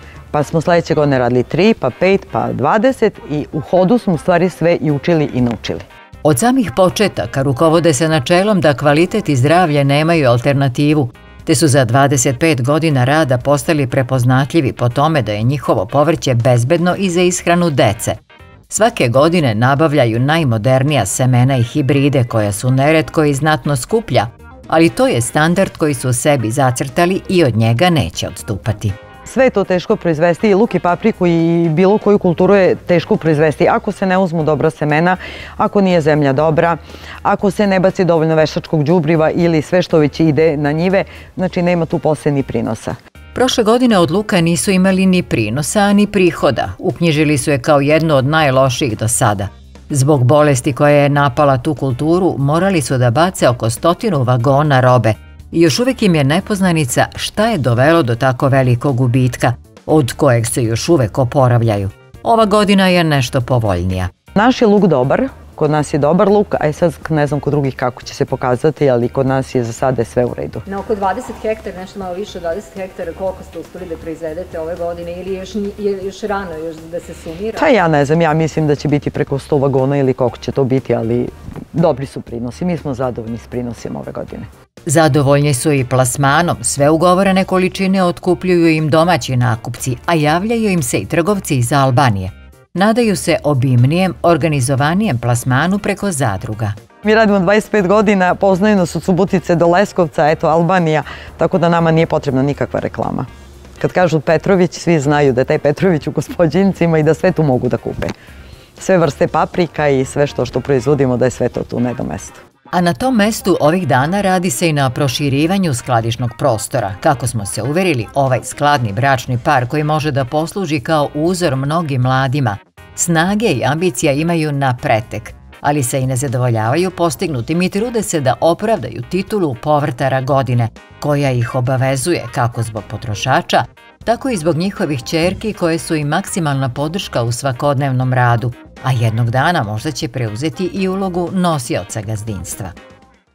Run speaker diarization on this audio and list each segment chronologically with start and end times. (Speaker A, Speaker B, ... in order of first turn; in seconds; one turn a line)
Speaker A: 0.3-5.8
Speaker B: 6.2-18.2
Speaker B: 18.7-29.0
Speaker A: 29.3-43.0
Speaker B: 43.3-64.1
Speaker A: 64.3-70.6
Speaker C: 70.7-77.5
Speaker A: 77.5-84.5
Speaker B: 84.9-96.8
Speaker A: 97.0-108.1
Speaker A: 108.8-112.4
Speaker B: 112.7-142.8